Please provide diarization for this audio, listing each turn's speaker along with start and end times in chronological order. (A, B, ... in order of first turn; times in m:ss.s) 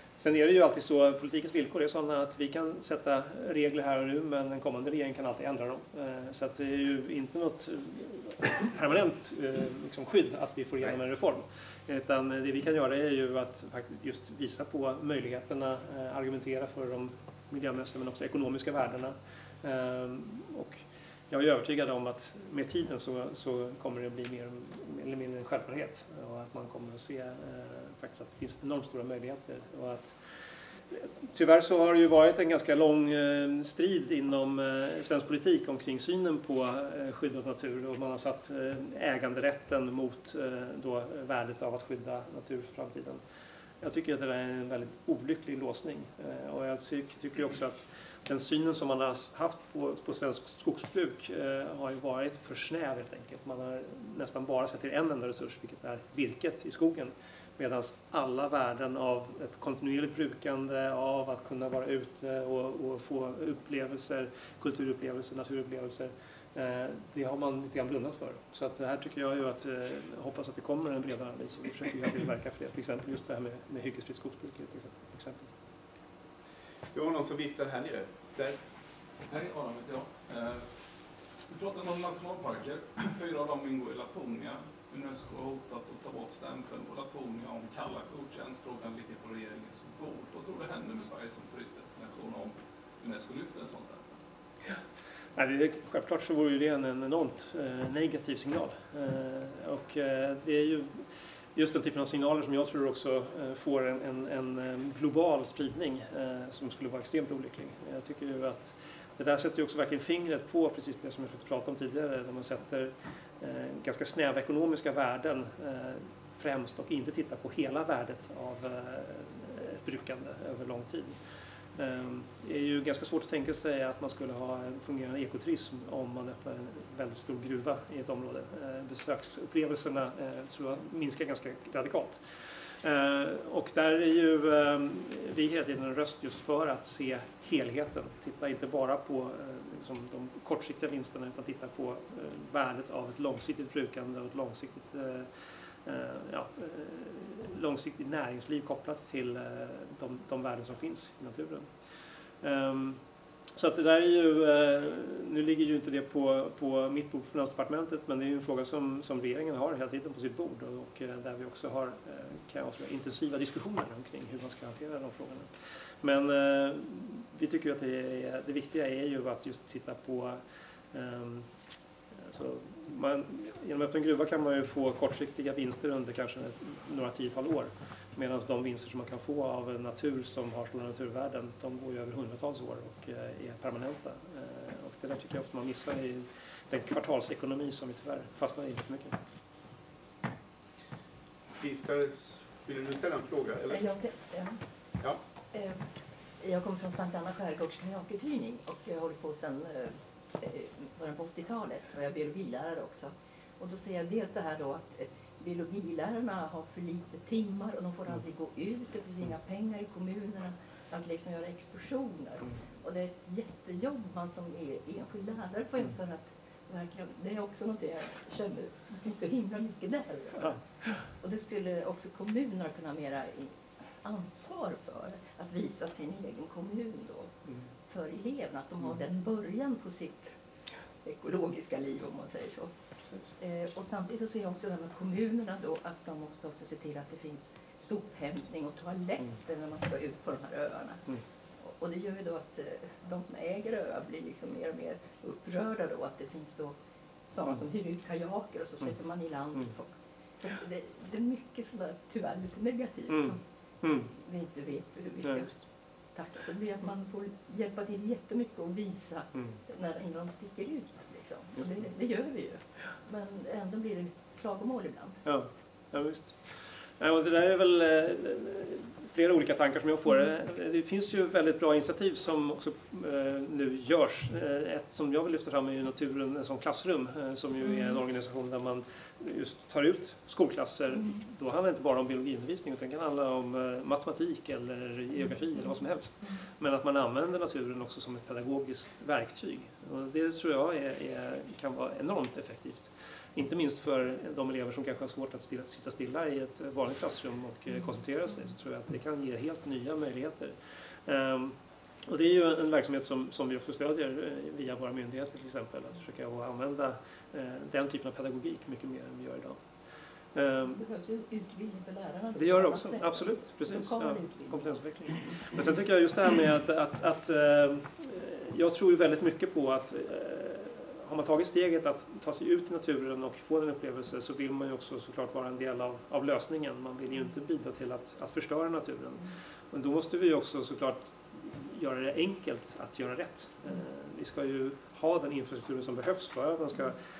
0:00.2-0:30.1 A
0:30.9-0:43.2 A
0:43.8-1:15.5 A
1:16.9-1:18.6 B
1:19.3-1:20.8 C
1:21.5-1:34.2 C
1:35.4-2:01.2 A
2:01.8-2:12.2 A
2:12.8-2:25.3 A
2:25.8-2:31.7 A
2:32.4-2:33.0 A
2:33.5-2:45.5 A
2:46.0-2:50.4 A
2:50.9-2:51.5 A
2:52.2-3:09.2 A
3:11.6-3:13.9 B
3:13.7-3:14.6 D
3:15.5-3:15.8 D
3:16.4-3:47.3 D
3:40.4-3:40.9 A
3:47.9-3:50.4 D
3:51.0-3:52.7 D
3:53.0-3:53.3 A
3:53.4-4:01.0 D
4:01.6-4:06.8 D
4:07.3-4:13.4 D
4:13.1-4:14.1 A
4:14.1-4:25.2 D
4:15.2-4:15.5 A
4:21.6-4:21.8 A
4:25.2-4:26.4 A
4:27.0-5:00.5 A
4:37.6-4:38.0 D
4:40.9-4:41.2 D
4:45.2-4:46.4 D
5:01.0-5:09.6 A
5:10.3-5:10.8 A
5:10.6-5:15.4 D
5:12.4-5:37.0 A